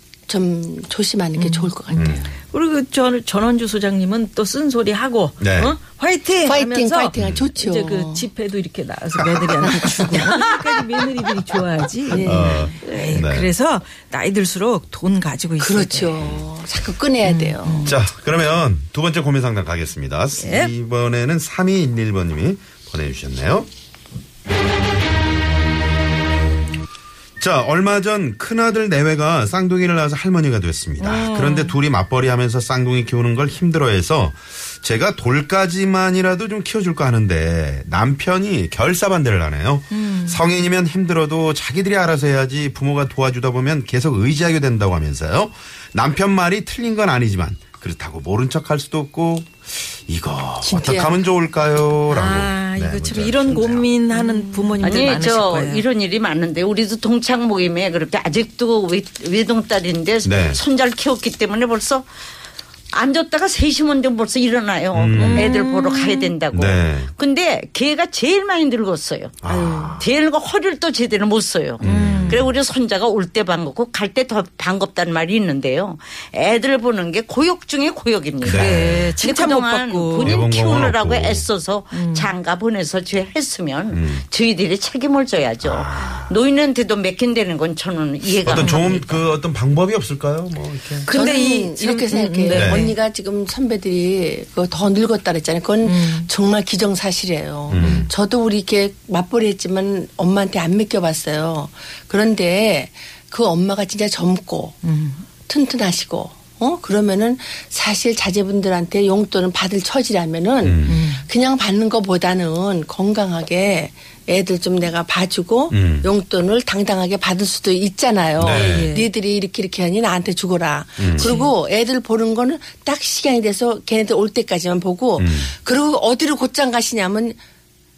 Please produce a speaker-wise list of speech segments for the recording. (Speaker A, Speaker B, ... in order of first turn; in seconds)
Speaker A: 0.3-2.3, 6.4-8.3, 9.6-10.5, 12.1-12.9, 15.6-17.9, 50.6-51.2, 91.1-104.8, 105.5-127.4
Speaker B: 1.4-1.7, 2.5-16.2, 17.2-17.9, 20.4-20.7, 31.0-31.8, 39.9-40.4, 52.1-55.8, 65.2-66.3, 69.4-70.0, 71.8-72.4, 78.4-80.4, 81.9-82.3, 88.5-88.9, 91.0-93.0, 95.8-96.3, 97.8-98.1, 104.8-105.2, 110.8-111.3, 118.5-119.1, 121.2-121.5
Speaker C: 1.9-2.3, 5.4-5.8, 7.2-7.5, 9.2-9.6, 12.2-13.5, 16.2-16.4, 17.8-23.7, 27.4-53.9, 60.2-60.6, 64.9-65.5, 66.5-67.1, 69.4-70.1, 71.8-72.6, 78.4-79.2, 80.2-81.5, 83.9-84.2, 85.6-86.3, 88.4-91.1, 92.5-92.9, 97.7-98.1, 110.6-111.0, 115.7-116.1, 118.3-118.9, 121.0-121.4, 125.2-125.5
Speaker D: 54.1-62.0, 62.9-69.3, 70.0-89.3